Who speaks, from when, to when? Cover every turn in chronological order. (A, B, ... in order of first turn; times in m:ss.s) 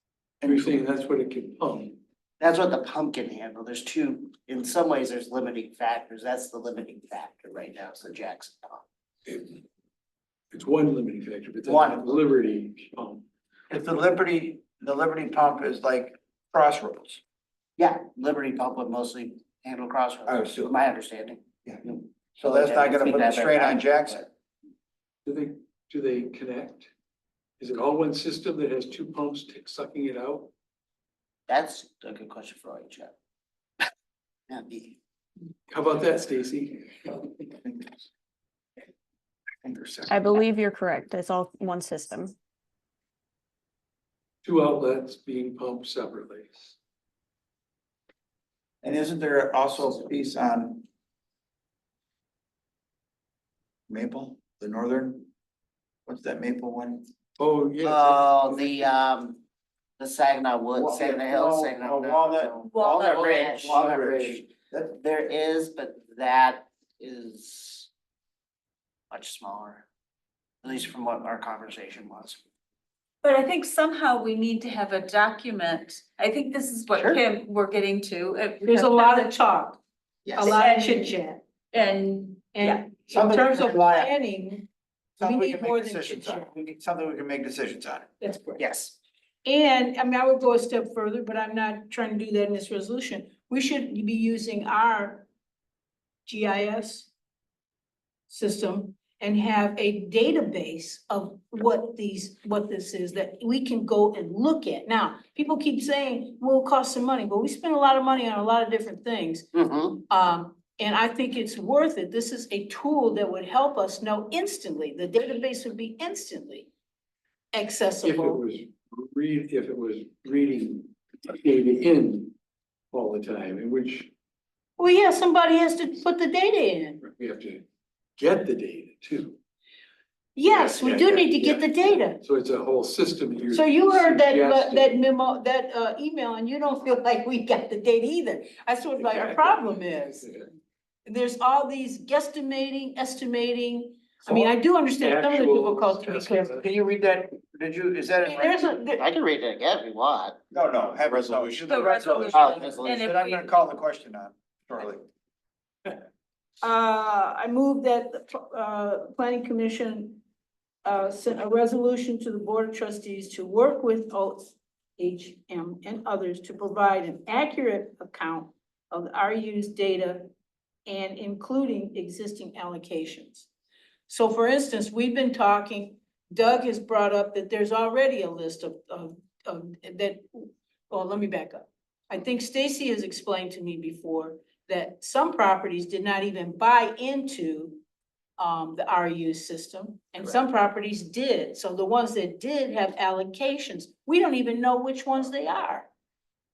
0:00.4-0:00.8 A
0:00.4-0:02.0 B
0:02.4-0:08.8 C
0:09.3-0:09.6 B
0:10.5-0:13.3 B
0:11.7-0:12.1 C
0:13.7-0:17.2 A
0:17.8-0:24.2 C
0:20.3-0:20.7 A
0:21.7-0:24.3 A
0:25.3-0:26.9 B
0:27.6-0:30.5 B
0:31.5-0:33.1 C
0:34.5-0:35.0 C
0:35.7-0:37.4 B
0:39.6-0:40.2 A
0:40.1-0:42.4 D
0:44.4-0:46.8 B
0:48.8-0:50.8 A
0:53.9-0:55.3 A
0:56.1-0:57.1 A
0:57.4-0:58.9 B
0:57.8-0:59.4 C
1:00.0-1:07.9 C
1:00.8-1:04.9 A
1:02.7-1:03.2 E
1:09.1-1:09.9 C
1:10.6-1:12.4 C
1:13.2-1:19.3 E
1:17.0-1:17.2 C
1:18.6-1:19.8 F
1:20.3-1:20.6 C
1:20.4-1:21.4 F
1:20.5-1:21.1 E
1:21.7-1:22.9 E
1:22.5-1:24.7 F
1:23.1-1:24.1 A
1:25.2-1:28.1 A
1:25.2-1:26.5 F
1:28.2-1:28.6 F
1:28.6-1:28.9 C
1:29.4-1:35.3 F
1:36.3-1:37.1 F
1:38.3-1:49.5 F
1:49.5-1:50.0 C
1:50.1-1:56.7 F
1:57.5-1:58.4 F
1:58.0-2:02.4 B
2:02.9-2:04.1 B
2:04.8-2:07.0 F
2:07.0-2:07.6 B
2:08.2-2:09.4 B
2:10.4-2:12.2 F
2:10.5-2:15.0 B
2:13.5-2:20.3 F
2:19.0-2:20.5 B
2:21.0-2:26.6 F
2:24.3-2:26.7 B
2:26.6-2:28.6 A
2:28.2-2:29.0 F
2:29.0-2:30.4 C
2:30.5-2:35.0 A
2:31.1-2:31.6 C
2:31.7-2:33.5 E
2:32.2-2:33.0 C
2:36.6-2:40.2 F
2:40.8-2:50.3 F
2:50.9-2:53.5 F
2:54.1-3:07.8 F
3:08.4-3:15.9 F